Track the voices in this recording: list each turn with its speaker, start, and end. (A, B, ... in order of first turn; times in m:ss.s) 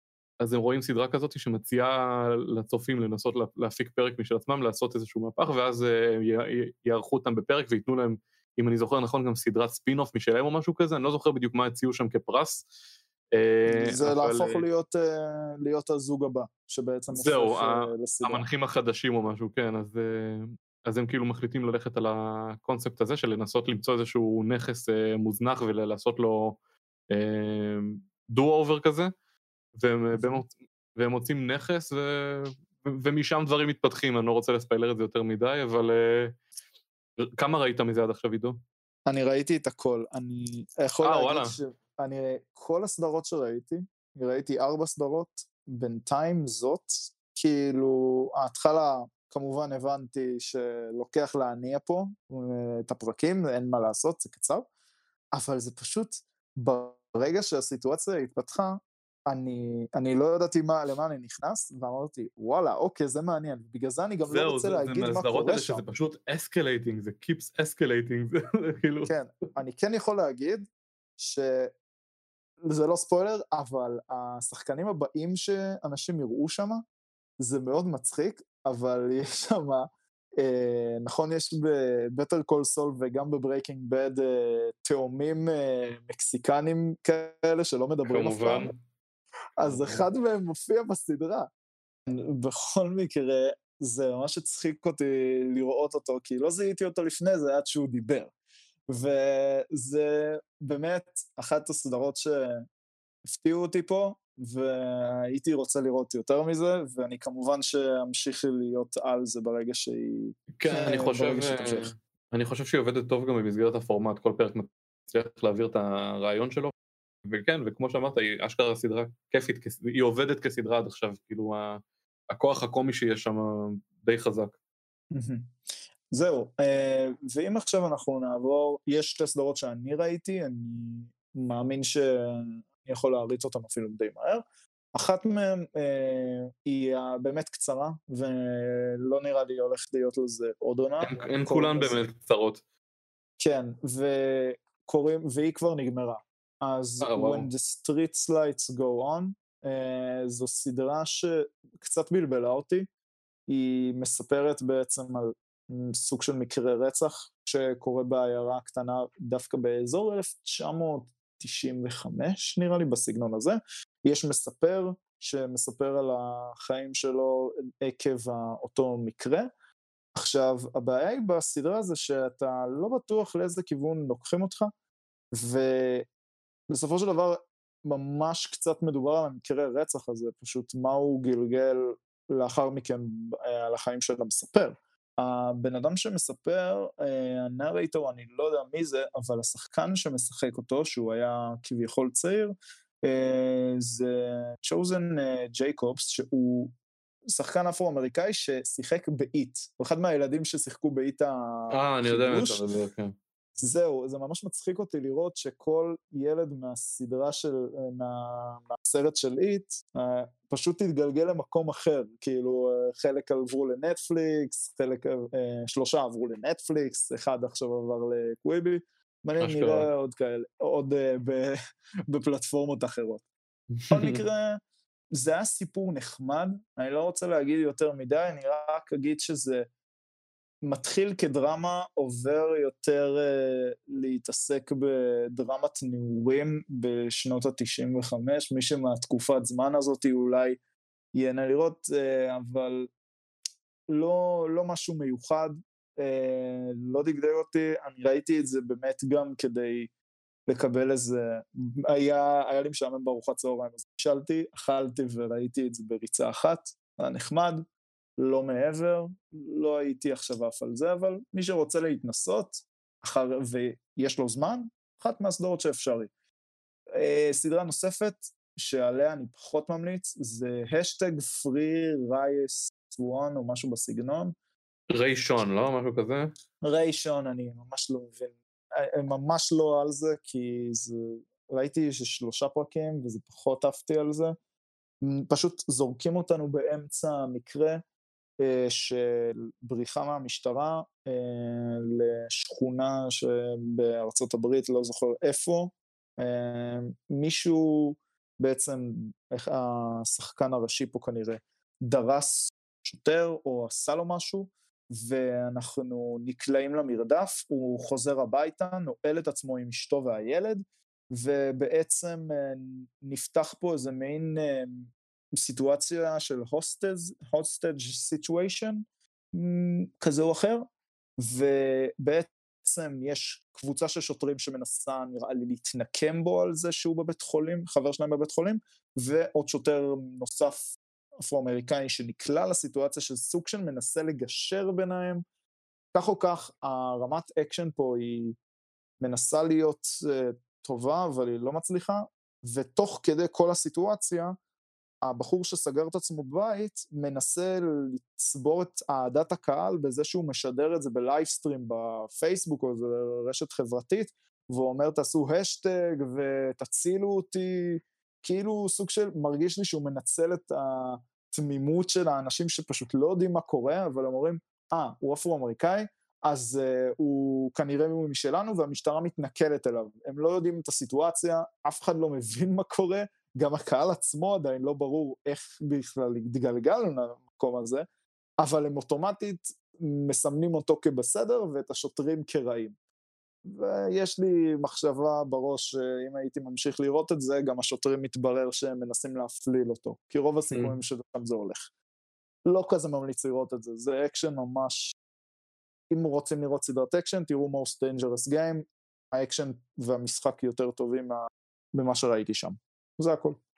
0:00.4-0:12.7 A
0:13.3-0:14.6 A
0:13.7-0:18.5 B
0:17.1-0:26.6 A
0:27.1-0:29.1 A
0:29.8-0:36.4 A
0:30.2-0:30.4 B
0:37.2-0:38.6 A
0:39.1-0:54.7 B
0:41.0-0:41.6 A
0:55.3-1:05.8 B
1:04.3-1:09.2 A
1:09.1-1:10.7 B
1:11.2-1:11.7 B
1:12.6-1:16.8 B
1:17.4-1:28.7 B
1:28.1-1:28.8 A
1:29.6-1:31.5 B
1:29.6-1:30.0 A
1:32.1-1:38.3 B
1:38.9-1:42.7 B
1:43.2-1:51.9 B
1:50.5-1:56.7 A
1:57.2-2:04.6 A
2:05.1-2:05.5 B
2:06.1-2:22.0 B
2:21.0-2:22.6 A
2:23.4-2:32.9 B
2:27.0-2:27.5 A
2:33.5-2:49.5 B
2:50.2-2:54.7 B
2:55.3-2:56.1 B
2:56.7-3:16.7 B
3:17.3-3:22.6 B
3:21.7-3:23.2 A
3:23.6-3:41.6 B
3:39.4-3:39.9 A
3:42.1-3:43.2 B
3:43.7-3:44.2 A
3:43.9-3:44.6 B
3:45.1-3:49.7 B
3:50.6-4:00.6 B
4:01.1-4:02.9 B
4:03.9-4:09.9 B
4:10.5-4:17.6 B
4:18.2-4:26.1 B
4:26.9-4:34.4 B
4:34.9-4:36.3 A
4:36.6-4:44.4 B
4:45.0-4:47.8 B
4:48.4-5:20.6 B
5:21.2-5:30.7 B
5:31.2-5:35.2 B
5:35.9-5:38.4 B
5:39.0-5:44.4 B
5:45.0-6:17.9 B
6:18.4-6:22.8 B
6:23.5-6:31.7 B
6:32.5-6:35.0 B
6:35.9-6:43.4 B